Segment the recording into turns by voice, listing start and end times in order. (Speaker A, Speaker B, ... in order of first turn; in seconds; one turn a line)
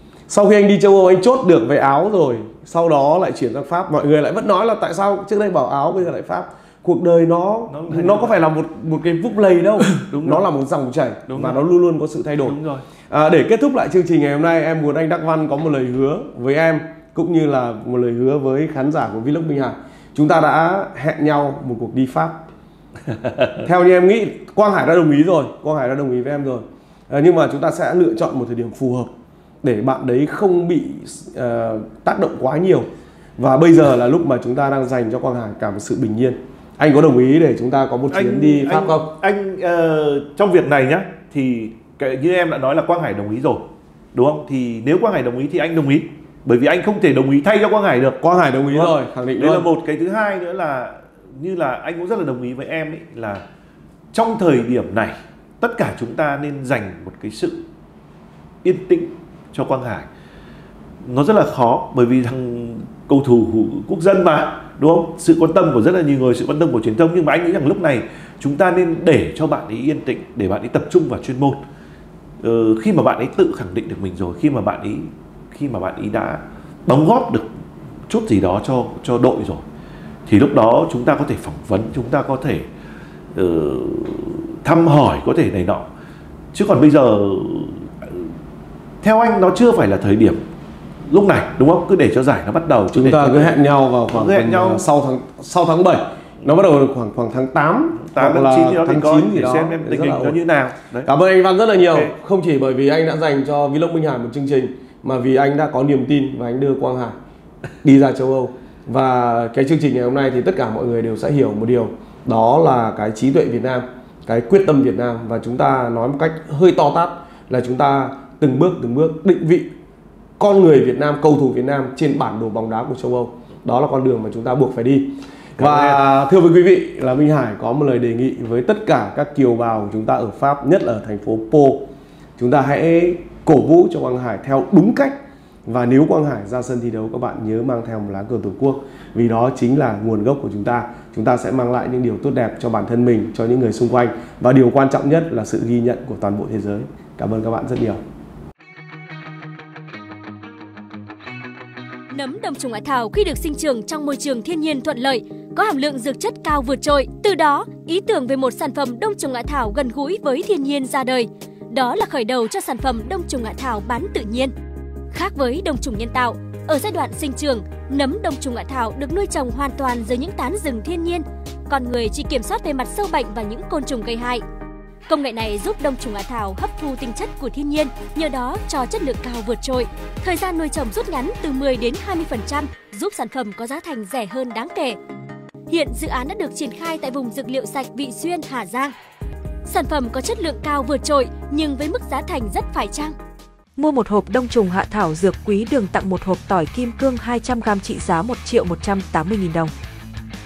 Speaker A: 0.3-12.6
Speaker B: 7.7-8.4
Speaker B: 9.8-10.4
Speaker B: 11.3-11.6
Speaker B: 12.4-12.8
Speaker A: 13.1-22.4
Speaker B: 23.1-23.6
Speaker A: 23.6-39.1
Speaker B: 38.1-53.4
Speaker A: 48.2-49.7
Speaker B: 54.1-57.6
Speaker B: 58.6-60.1
Speaker B: 61.0-71.6
Speaker B: 72.4-77.5
Speaker B: 78.1-79.6
Speaker B: 80.2-82.7
Speaker B: 83.3-85.8
Speaker B: 86.5-88.3
Speaker B: 89.0-90.4
Speaker B: 91.1-93.6
Speaker A: 92.9-100.4
Speaker B: 94.1-94.8
Speaker B: 98.0-101.1
Speaker A: 101.0-107.2
Speaker B: 101.9-102.1
Speaker A: 107.8-119.7
Speaker A: 120.4-131.8
Speaker B: 125.6-126.0
Speaker A: 132.4-148.0
Speaker C: 152.1-164.5
Speaker C: 165.1-174.4
Speaker C: 175.1-185.0
Speaker C: 185.7-188.9
Speaker C: 189.6-193.1
Speaker D: 193.8-199.7